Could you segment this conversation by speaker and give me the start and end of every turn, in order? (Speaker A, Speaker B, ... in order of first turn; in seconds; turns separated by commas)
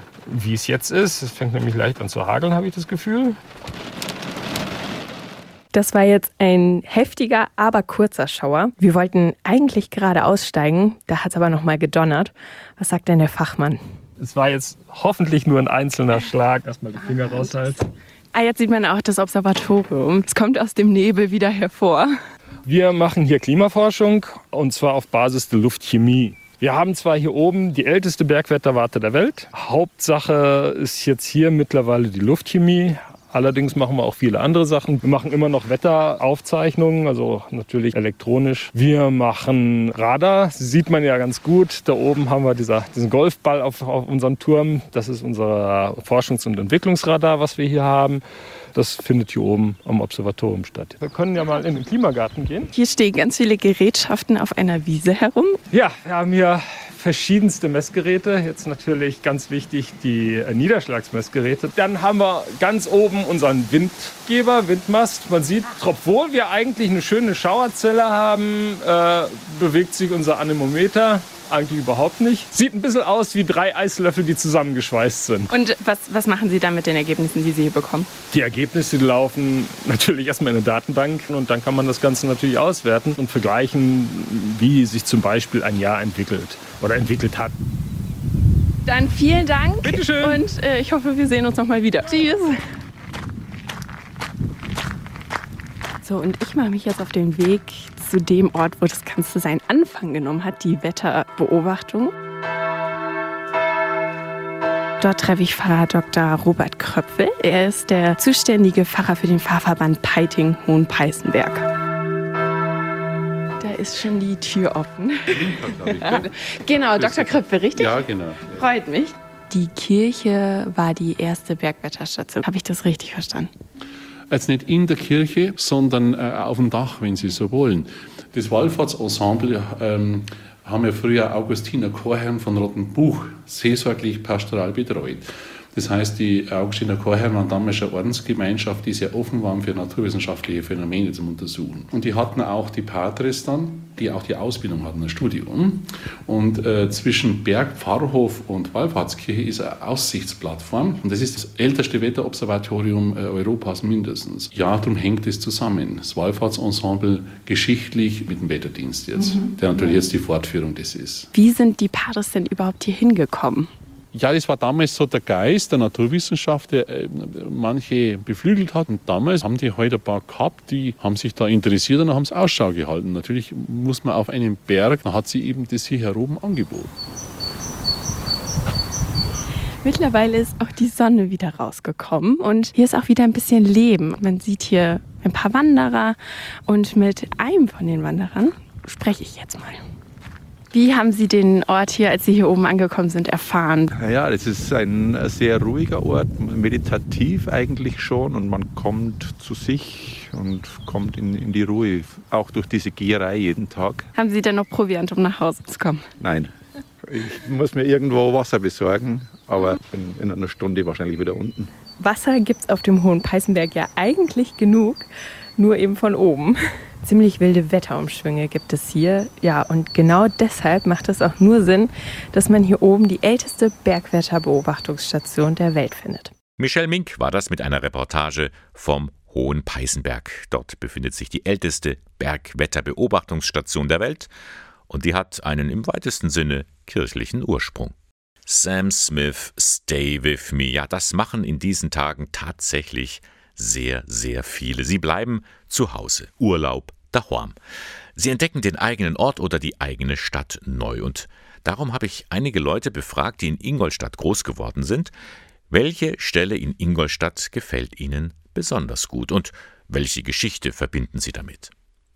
Speaker A: 0.2-3.4, Speaker B: 5.7-13.8, Speaker A: 14.2-17.8, Speaker B: 17.1-17.5, Speaker B: 18.3-22.2, Speaker A: 22.6-48.2, Speaker A: 48.7-52.7, Speaker B: 52.7-55.6, Speaker A: 55.7-75.5, Speaker B: 75.5-78.1, Speaker A: 78.3-87.5, Speaker B: 88.8-92.6, Speaker A: 89.8-90.4, Speaker B: 96.0-102.1, Speaker B: 105.0-111.7, Speaker B: 113.6-123.5, Speaker C: 115.3-116.3, Speaker C: 116.9-118.7, Speaker C: 124.3-161.3, Speaker B: 159.2-160.1, Speaker B: 161.3-163.7, Speaker C: 164.1-176.9, Speaker B: 179.8-189.8, Speaker B: 190.7-193.9, Speaker D: 193.9-204.1, Speaker B: 204.1-206.1, Speaker D: 206.2-206.5, Speaker D: 207.1-211.7, Speaker B: 212.0-226.3, Speaker E: 226.6-234.3, Speaker E: 234.9-237.9, Speaker E: 238.4-247.6, Speaker E: 248.2-255.1, Speaker E: 255.7-261.7